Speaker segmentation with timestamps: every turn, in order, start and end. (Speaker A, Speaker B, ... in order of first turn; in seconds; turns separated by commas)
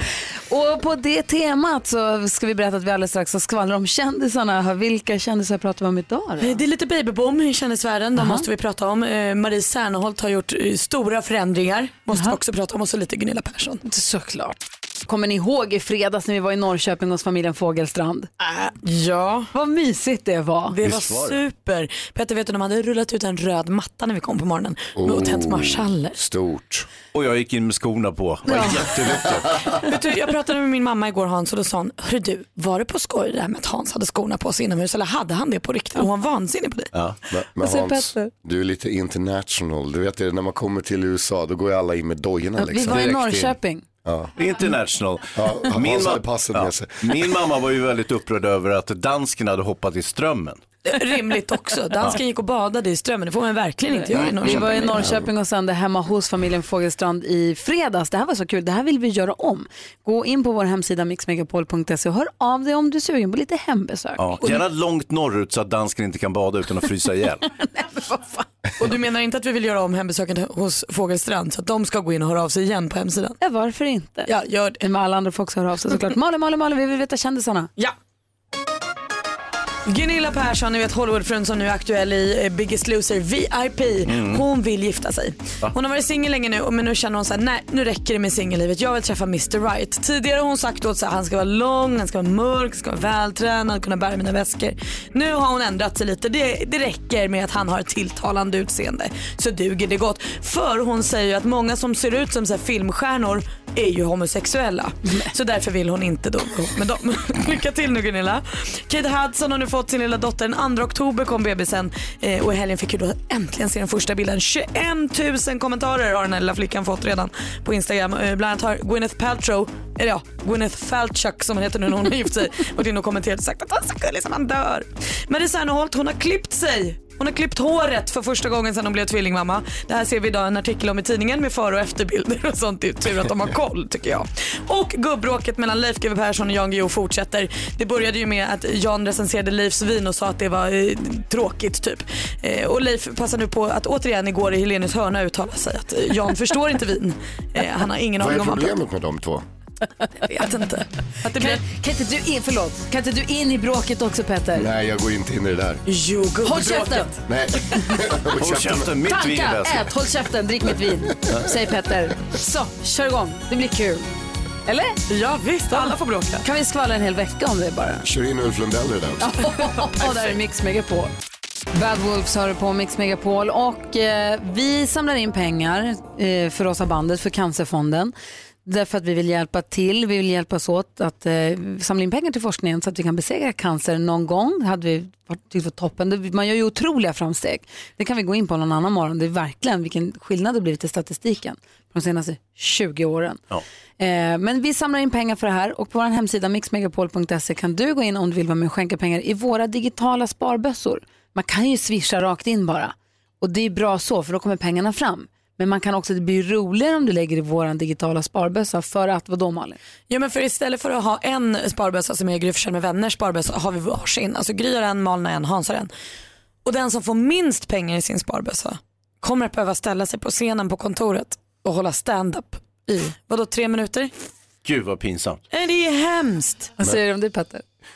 Speaker A: 0.5-6.6, Speaker B: 6.4-13.8, Speaker A: 8.2-8.4, Speaker A: 13.8-18.3, Speaker B: 18.4-19.5, Speaker A: 19.5-20.7, Speaker B: 20.7-26.2, Speaker C: 20.8-21.4, Speaker D: 24.9-26.9, Speaker C: 27.1-29.6, Speaker A: 28.5-28.8, Speaker B: 29.8-36.9, Speaker D: 37.3-43.4, Speaker A: 37.6-38.3, Speaker A: 42.6-43.9, Speaker C: 42.9-43.4, Speaker D: 44.0-44.3, Speaker C: 44.4-50.6, Speaker D: 45.4-47.1, Speaker B: 50.9-55.0, Speaker A: 54.0-64.4, Speaker C: 64.2-67.4, Speaker A: 67.8-68.4, Speaker B: 68.8-73.4, Speaker A: 73.4-74.3, Speaker B: 74.3-74.8, Speaker A: 74.8-77.7, Speaker B: 79.9-148.7, Speaker C: 84.0-84.4, Speaker D: 148.2-149.4, Speaker B: 150.3-151.6, Speaker A: 151.3-154.7, Speaker D: 154.5-155.8, Speaker B: 155.9-157.2, Speaker A: 156.4-157.1, Speaker D: 157.3-158.9, Speaker C: 158.4-159.9, Speaker A: 159.1-164.0, Speaker A: 164.7-165.0, Speaker B: 165.1-166.4, Speaker A: 165.7-168.0, Speaker D: 168.0-169.2, Speaker A: 169.2-171.1, Speaker A: 171.7-178.1, Speaker A: 178.6-193.4, Speaker A: 194.0-209.8, Speaker B: 210.1-215.9, Speaker B: 216.6-224.1, Speaker C: 224.6-225.4, Speaker B: 225.5-226.7, Speaker A: 226.8-227.6